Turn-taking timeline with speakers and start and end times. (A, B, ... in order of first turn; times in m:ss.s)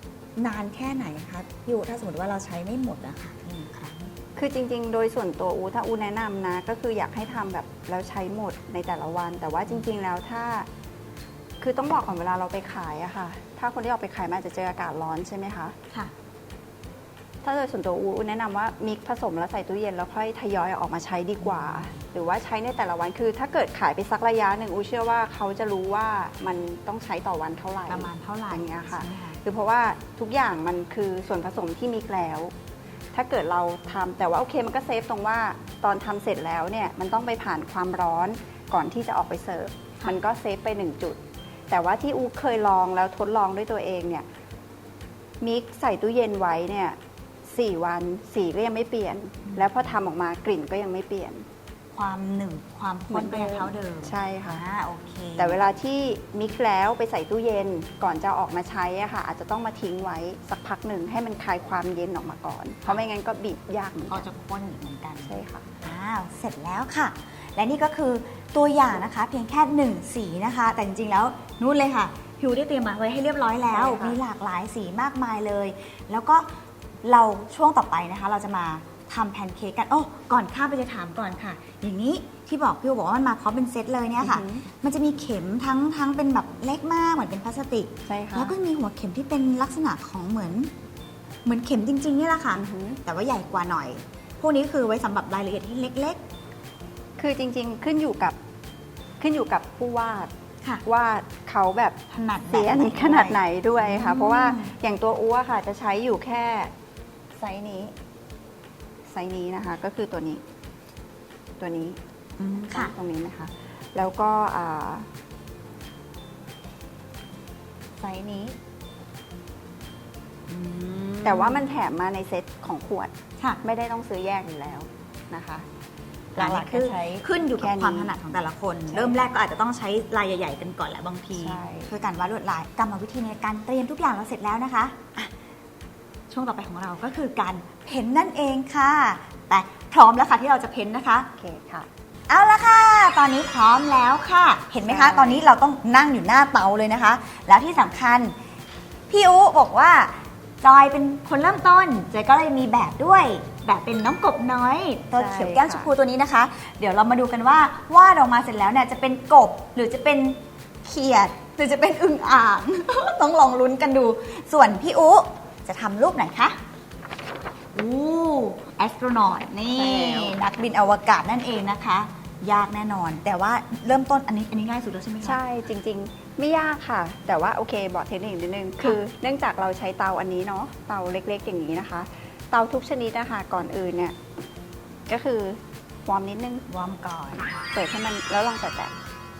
0:00.4-0:04.1 A
0:04.4-0:10.7 B
0:11.6-0:15.8 B
0:17.4-0:32.5 B
0:21.4-0:22.0 A
0:27.9-0:29.4 A
0:33.1-0:41.2 B
0:41.7-0:44.2 B
0:45.4-0:51.4 B
0:49.4-0:49.9 A
0:51.9-0:55.7 A
0:53.1-0:54.6 B
0:55.4-1:04.2 B
1:04.1-1:16.5 A
1:05.2-1:05.7 B
1:13.7-1:14.2 B
1:17.0-1:30.7 A
1:24.2-1:24.6 B
1:28.1-1:28.5 B
1:31.4-1:36.2 A
1:32.5-1:33.0 B
1:37.2-1:38.4 B
1:39.2-1:40.3 B
1:40.8-1:42.0 B
1:42.1-1:44.7 A
1:42.5-1:46.7 B
1:47.4-1:47.9 B
1:49.1-1:50.4 B
1:51.6-1:52.0 B
1:52.4-1:52.9 A
1:52.7-1:55.1 B
1:58.0-1:58.5 A
2:00.5-2:01.6 A
2:01.2-2:05.6 B
2:06.3-2:08.1 B
2:06.4-2:15.2 A
2:08.9-2:09.2 B
2:11.4-2:11.9 B
2:16.3-2:21.3 A
2:21.4-2:21.9 B
2:22.3-2:28.3 A
2:24.8-2:25.4 B
2:29.1-2:46.5 A
2:35.2-2:35.9 B
2:47.7-2:55.4 A
2:49.7-2:50.4 B
2:55.2-3:04.1 B
3:05.1-3:06.6 B
3:06.7-3:07.6 A
3:07.7-3:08.9 B